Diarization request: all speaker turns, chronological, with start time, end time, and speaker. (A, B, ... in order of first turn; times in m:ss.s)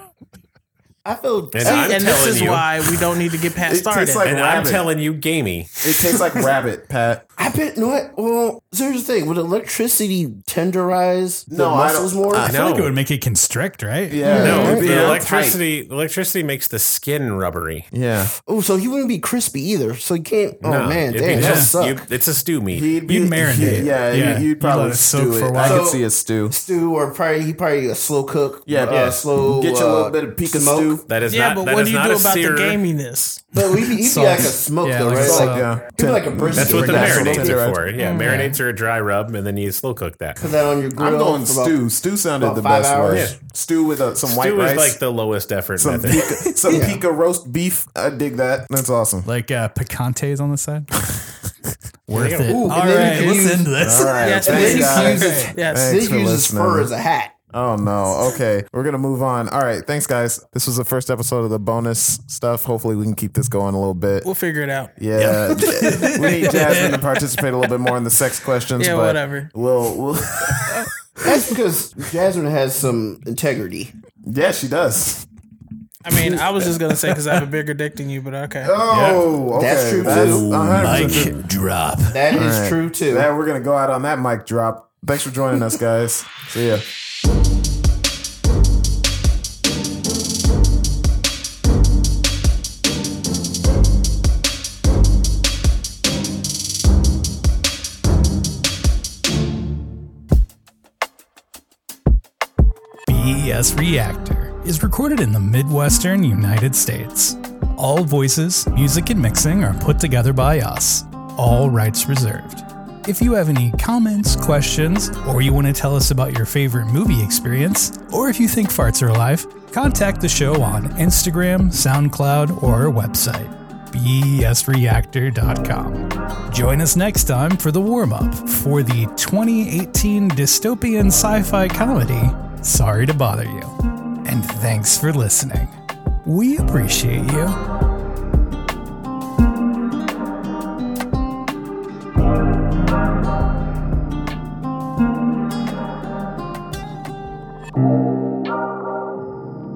0:01.0-0:02.6 A
0:01.5-0:03.0 B
0:01.6-0:04.3 C
0:03.6-0:04.9 D
0:04.2-0:06.5 B
0:05.8-0:07.2 D
0:07.4-0:12.5 A
0:11.5-0:12.5 D
0:12.3-0:13.0 B
0:12.4-0:14.2 E
0:14.1-0:15.6 D
0:14.2-0:15.2 C
0:14.3-0:14.8 A
0:14.4-0:17.9 B
0:17.9-0:18.3 D
0:18.4-0:22.1 A
0:20.6-0:22.9 B
0:21.3-0:21.7 E
0:22.7-0:26.5 D
0:23.1-0:25.9 E
0:25.6-0:31.0 A
0:28.7-0:31.0 D
0:28.9-0:29.2 B
0:31.1-0:32.8 B
0:31.3-0:33.4 C
0:33.5-0:37.7 A
0:33.6-0:35.7 E
0:35.2-0:37.9 D
0:36.5-0:40.4 B
0:38.0-0:38.4 C
0:38.2-0:38.6 E
0:40.4-0:41.8 A
0:41.0-0:45.0 D
0:42.4-0:43.3 A
0:43.1-0:43.4 B
0:44.3-0:46.4 B
0:45.8-0:49.3 D
0:46.7-0:47.0 A
0:49.2-0:50.9 E
0:52.1-0:55.5 E
0:52.1-0:52.8 B
0:52.4-0:57.3 A
0:53.2-0:56.9 D
0:54.2-0:55.9 C
0:57.5-1:04.3 D
1:04.2-1:05.0 C
1:05.0-1:11.6 D
1:05.2-1:07.0 E
1:08.8-1:09.5 C
1:11.2-1:13.9 A
1:14.3-1:15.2 D
1:16.0-1:18.8 C
1:18.6-1:21.4 D
1:18.9-1:19.3 E
1:19.5-1:20.5 A
1:20.0-1:21.4 B
1:20.7-1:22.2 E
1:22.1-1:23.3 A
1:22.3-1:26.9 D
1:43.1-2:15.7 E
2:16.2-2:17.6 E